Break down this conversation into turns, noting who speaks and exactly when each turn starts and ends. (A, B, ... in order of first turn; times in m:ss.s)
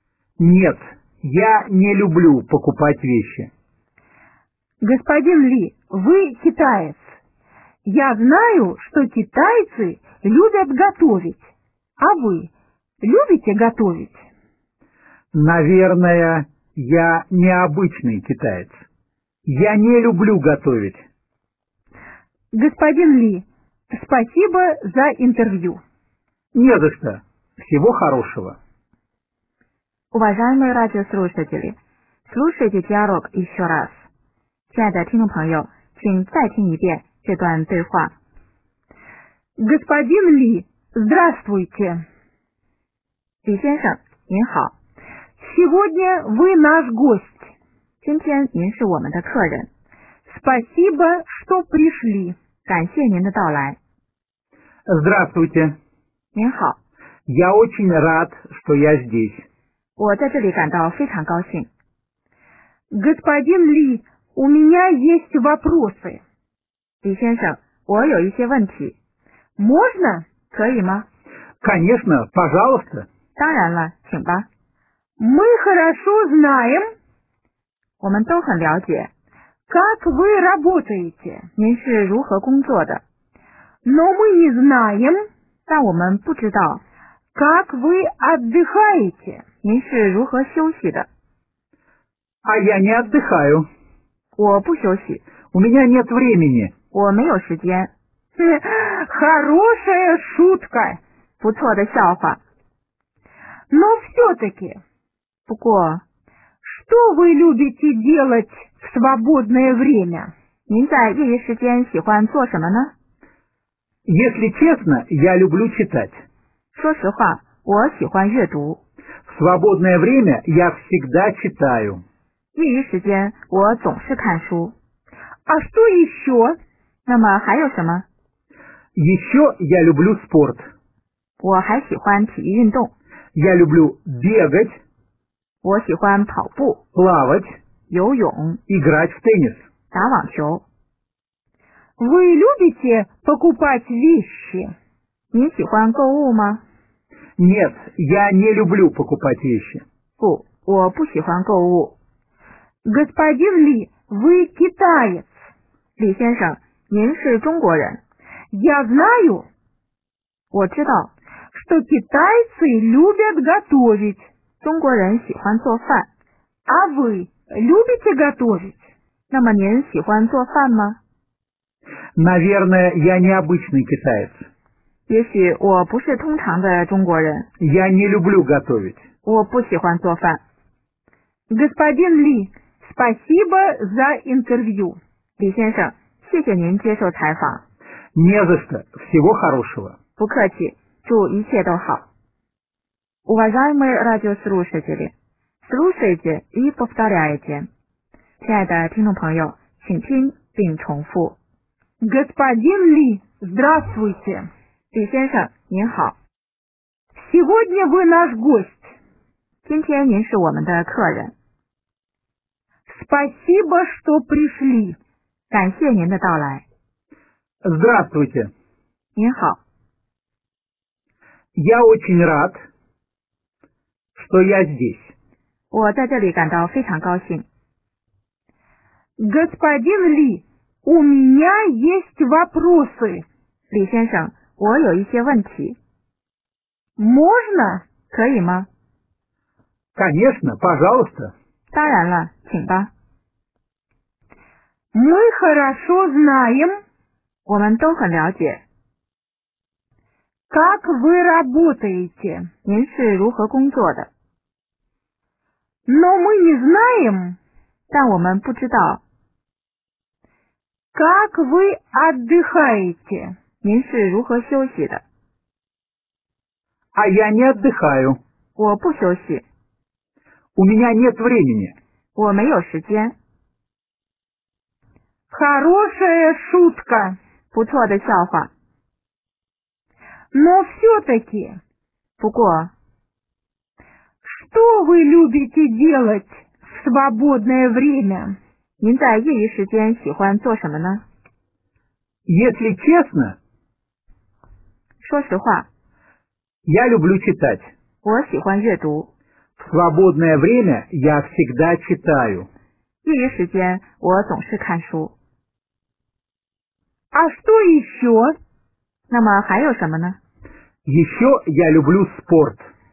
0:00.4-0:03.5 A
0:04.8-0:07.0 B
0:07.8-0:12.5 B
0:13.0-0:14.2 B
0:15.3-0:18.8 A
0:19.4-0:21.0 A
0:22.5-0:25.8 B
0:26.5-0:28.6 A
0:30.1-0:31.8 C
0:32.3-0:34.0 C
0:34.7-0:38.1 C
0:39.6-0:42.0 B
0:43.4-0:44.7 C
0:45.4-0:47.5 B
0:48.0-0:49.7 C
0:50.3-0:52.4 B
0:52.6-0:53.8 C
0:54.8-0:55.8 A
0:56.3-0:56.8 C
0:57.3-0:59.4 A
1:00.0-1:01.7 C
1:02.9-1:06.2 B
1:07.0-1:09.0 C
1:09.6-1:10.2 B
1:10.5-1:11.1 C
1:11.6-1:13.1 A
1:13.4-1:14.5 C
1:15.2-1:16.9 B
1:18.0-1:19.1 C
1:19.7-1:21.5 B
1:21.6-1:23.0 C
1:23.8-1:25.2 B
1:25.7-1:26.8 C
1:27.3-1:29.4 B
1:29.6-1:31.1 C
1:32.4-1:33.7 A
1:34.4-1:35.2 C
1:35.5-1:36.7 A
1:36.9-1:37.9 C
1:38.4-1:41.0 B
1:41.4-1:42.4 C
1:43.7-1:44.8 B
1:45.5-1:46.0 C
1:46.6-1:50.3 B
1:50.7-1:52.9 C
1:54.0-1:56.2 A
1:56.7-1:58.8 C
1:59.3-2:02.0 A
2:02.5-2:04.7 C
2:05.4-2:06.6 B
2:07.0-2:08.0 C
2:08.9-2:10.7 A
2:11.4-2:12.9 C
2:13.3-2:14.8 A
2:15.6-2:16.8 C
2:16.9-2:17.6 A
2:17.9-2:18.6 C
2:18.7-2:19.6 A
2:19.9-2:20.6 C
2:22.0-2:24.7 B
2:25.3-2:26.6 C
2:27.4-2:29.8 A
2:30.2-2:31.9 C
2:32.8-2:35.4 B
2:36.0-2:38.0 C
2:38.5-2:39.4 B
2:40.5-2:41.1 C
2:41.5-2:44.3 B
2:44.6-2:46.1 C
2:46.6-2:48.8 B
2:49.3-2:51.0 C
2:52.2-2:54.4 A
2:55.1-2:57.5 C
2:57.6-2:59.0 A
2:59.2-3:00.4 C
3:01.5-3:05.0 B
3:05.4-3:07.6 C
3:08.1-3:10.0 A
3:10.2-3:12.0 C
3:13.2-3:15.1 C
3:15.6-3:17.7 C
3:18.4-3:21.4 C
3:22.0-3:24.5 B
3:24.9-3:26.2 C
3:27.2-3:28.9 B
3:29.6-3:31.3 C
3:32.9-3:35.0 B
3:35.5-3:36.6 C
3:37.6-3:38.5 A
3:39.1-3:39.6 C
3:41.5-3:42.6 A
3:44.2-3:45.1 A
3:45.7-3:47.4 C
3:49.2-3:53.2 B
3:53.7-3:55.8 C
3:57.0-3:57.8 B
3:58.1-3:58.7 C
4:00.0-4:01.3 A
4:01.7-4:02.9 C
4:04.9-4:06.8 B
4:07.4-4:08.6 C
4:10.5-4:12.5 B
4:12.6-4:14.1 C
4:15.8-4:17.4 B
4:17.9-4:19.0 C
4:20.9-4:23.3 B
4:23.6-4:25.0 C
4:26.9-4:28.2 A
4:28.6-4:29.4 C
4:30.5-4:31.8 A
4:32.1-4:33.2 C
4:35.3-4:37.2 B
4:37.5-4:38.5 C
4:40.3-4:41.6 B
4:42.2-4:42.7 C
4:44.2-4:48.4 B
4:48.8-4:51.0 C
4:52.2-4:53.4 A
4:55.0-4:55.7 C
4:56.6-4:57.7 A
4:58.0-4:59.1 C
4:59.6-5:02.5 A
5:03.0-5:05.1 C
5:07.1-5:08.3 B
5:09.1-5:10.2 C
5:10.8-5:12.7 A